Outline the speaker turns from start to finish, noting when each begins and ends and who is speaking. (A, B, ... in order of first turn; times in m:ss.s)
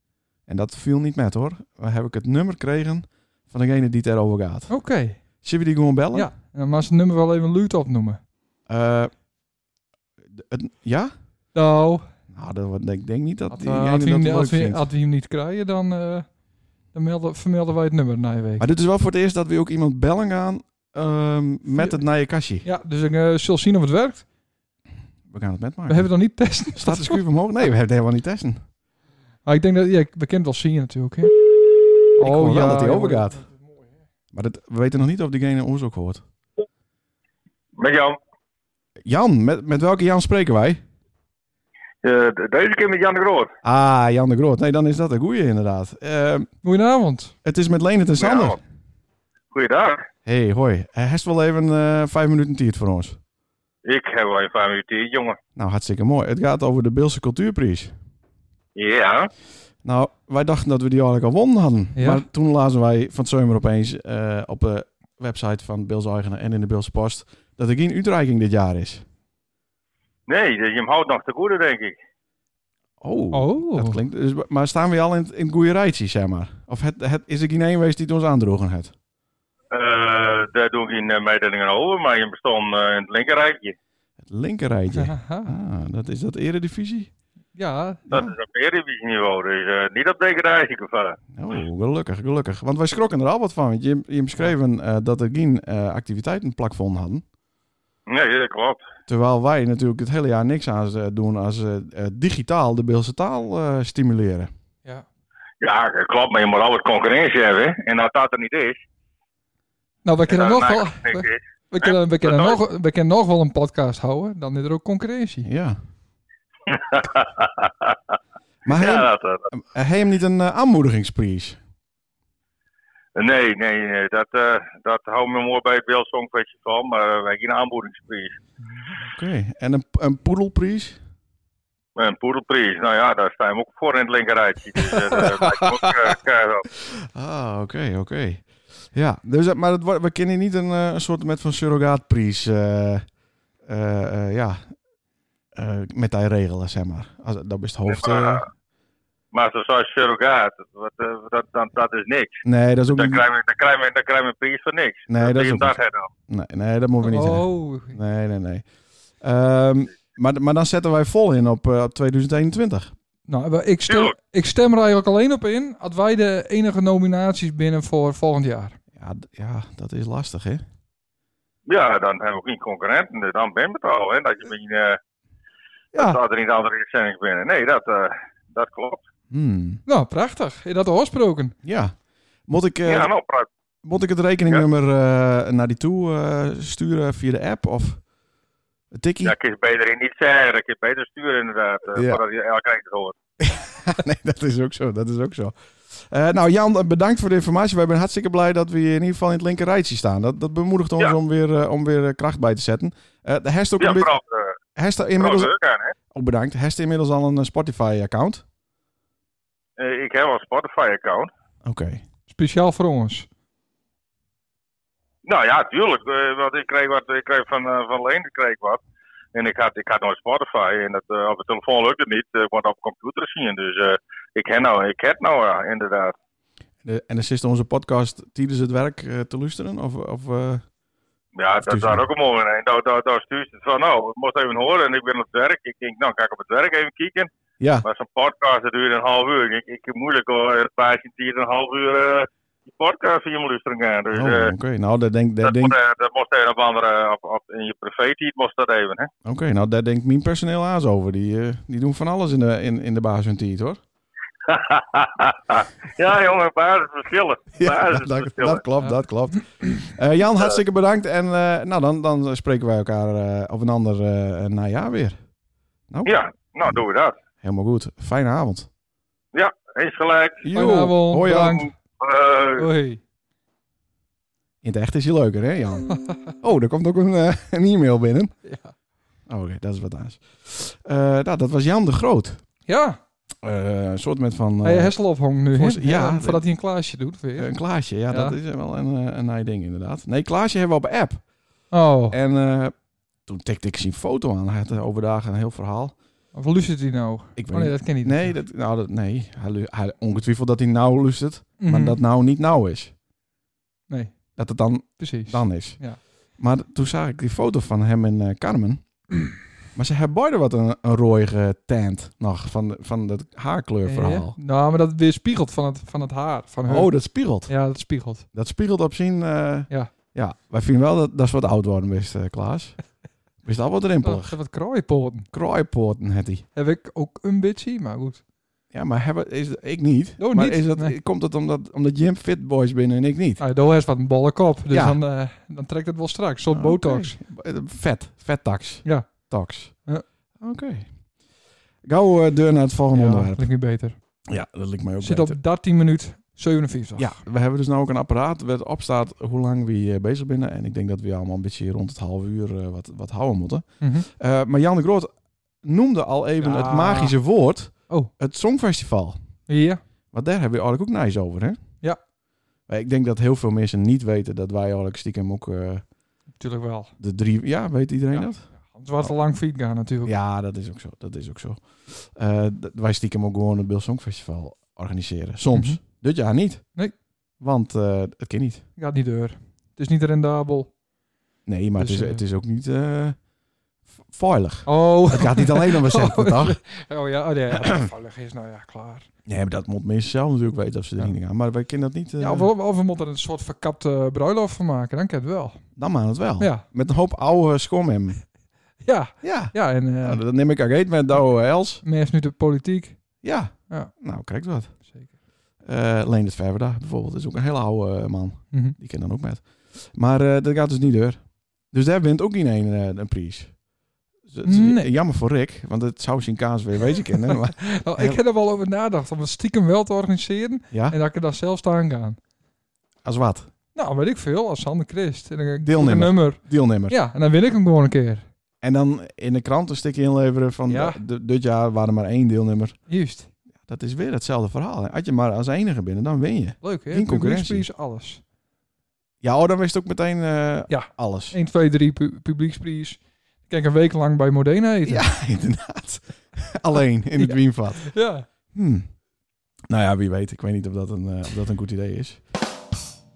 0:00.5-0:04.7 A
0:04.7-0:05.2 B
0:05.4-0:06.3 A
0:06.1-0:08.2 B
0:08.7-0:09.1 A
0:10.3-0:11.1 A
0:11.5-0:12.0 B
0:12.3-0:14.9 A
0:13.5-0:16.3 B
0:16.9-0:18.6 B
0:18.6-0:22.6 A
0:21.7-0:22.0 B
0:22.6-0:24.2 B
0:25.3-0:26.1 A
0:25.9-0:27.2 B
0:26.7-0:28.6 A
0:29.4-0:31.3 B
0:32.2-0:33.7 B
0:32.2-0:33.4 A
0:34.3-0:36.2 A
0:37.8-0:38.2 C
0:39.0-0:40.8 A
0:42.0-0:43.5 C
0:43.6-0:46.5 A
0:46.6-0:47.3 B
0:47.4-0:48.6 A
0:48.2-0:48.6 C
0:49.5-0:50.0 C
0:50.2-0:53.2 A
0:53.8-0:55.4 C
0:55.6-0:57.9 A
0:58.8-0:59.3 C
0:59.8-1:09.0 A
1:02.0-1:02.2 B
1:10.3-1:11.9 C
1:13.0-1:18.9 A
1:13.3-1:14.0 B
1:19.7-1:23.8 C
1:24.2-1:27.1 A
1:25.0-1:25.5 B
1:27.5-1:28.3 B
1:28.1-1:31.2 C
1:31.3-1:37.2 A
1:38.1-1:38.8 C
1:39.1-1:44.5 A
1:45.6-1:48.8 C
1:50.0-1:55.5 B
1:50.3-1:52.6 C
1:55.4-1:55.8 A
1:56.7-1:58.0 C
1:58.6-2:01.6 A
1:58.7-1:59.4 C
2:03.1-2:08.3 C
2:09.1-2:11.0 A
2:12.0-2:16.7 C
2:14.8-2:15.9 A
2:16.8-2:23.0 A
2:23.6-2:24.7 A
2:25.6-2:28.4 A
2:27.9-2:28.4 C
2:29.3-2:36.1 C
2:32.4-2:33.2 A
2:35.1-2:38.7 A
2:37.0-2:38.0 B
2:39.2-2:42.9 A
2:43.3-2:48.8 B
2:43.9-2:44.1 C
2:49.0-2:50.6 A
2:51.7-2:55.0 C
2:55.9-2:59.0 C
2:59.3-2:59.8 A
2:59.8-3:01.6 B
3:01.6-3:03.1 A
3:02.8-3:03.5 C
3:03.8-3:08.0 A
3:08.9-3:09.3 A
3:09.2-3:13.1 C
3:11.9-3:12.2 A
3:13.4-3:24.1 A
3:23.8-3:24.6 C
3:24.7-3:25.5 A
3:25.2-3:25.9 C
3:26.1-3:28.4 A
3:29.8-3:31.3 C
3:31.6-3:32.0 A
3:32.3-3:33.3 B
3:35.2-3:38.8 C
3:39.3-3:46.1 C
3:46.8-3:50.6 A
3:51.4-3:57.3 C
3:51.6-3:52.0 A
3:57.6-3:57.8 A
3:57.8-4:04.5 C
4:04.1-4:05.8 A
4:05.4-4:09.1 C
4:09.2-4:13.8 A
4:14.5-4:18.6 C
4:17.6-4:25.2 A
4:25.9-4:26.8 A
4:26.0-4:27.1 C
4:27.4-4:28.7 A
4:29.3-4:30.4 C
4:30.4-4:31.7 A
4:30.5-4:31.7 B
4:32.0-4:32.7 C
4:32.6-4:33.0 B
4:34.6-4:38.4 A
4:35.9-4:36.3 B
4:38.4-4:38.7 B
4:39.3-4:42.4 A
4:42.7-4:43.0 B
4:43.4-4:44.9 A
4:44.6-4:47.5 B
4:45.5-4:46.4 A
4:47.4-4:51.2 A
4:48.1-4:48.4 B
4:51.7-4:52.2 B
4:52.1-4:52.7 A
4:53.2-4:56.0 A
4:56.3-4:58.4 B
4:57.4-5:02.9 A
5:01.6-5:02.0 B
5:03.9-5:04.4 B
5:04.3-5:09.1 A
5:05.0-5:06.0 B
5:09.7-5:14.3 A
5:13.8-5:18.2 B
5:16.7-5:17.5 A
5:18.3-5:22.8 A
5:23.4-5:24.4 A
5:24.0-5:25.3 B
5:25.3-5:26.4 A
5:26.5-5:28.2 B
5:28.7-5:33.4 A
5:30.2-5:30.9 B
5:33.4-5:37.2 B
5:34.7-5:35.0 A
5:36.5-5:39.9 A
5:38.8-5:40.0 B
5:40.4-5:40.9 A
5:41.8-5:43.5 A
5:42.9-5:44.0 B
5:44.3-5:45.4 A
5:45.0-5:47.1 B
5:47.0-5:55.1 A
5:53.8-5:54.1 B
5:55.6-5:59.2 A
5:56.4-5:57.1 B
5:59.5-5:59.8 B
6:00.1-6:01.6 A
6:02.7-6:05.9 A
6:06.3-6:06.9 B
6:07.0-6:08.5 A
6:08.1-6:10.1 B
6:10.0-6:16.7 A
6:17.4-6:18.6 A
6:18.8-6:20.7 B
6:21.4-6:23.2 A
6:21.8-6:22.2 B
6:24.1-6:26.6 A
6:24.6-6:29.1 B
6:27.5-6:27.9 A
6:29.2-6:32.5 A
6:32.2-6:35.6 B
6:35.8-6:38.2 A
6:38.8-6:40.2 B
6:39.2-6:41.8 A
6:41.8-6:43.9 B
6:43.2-6:44.8 A
6:45.6-6:53.6 A
6:54.3-6:58.2 A
6:54.4-6:54.9 B
6:57.5-7:02.2 B
7:00.7-7:01.0 A
7:03.0-7:03.5 A
7:03.7-7:08.2 B
7:05.6-7:07.0 A
7:08.6-7:12.8 A
7:10.7-7:11.0 B
7:12.9-7:13.3 B
7:13.6-7:17.7 A
7:16.6-7:18.2 B
7:19.2-7:21.4 A
7:20.7-7:25.0 B
7:24.8-7:27.9 A
7:27.2-7:28.2 B
7:28.5-7:28.9 A
7:29.7-7:32.2 A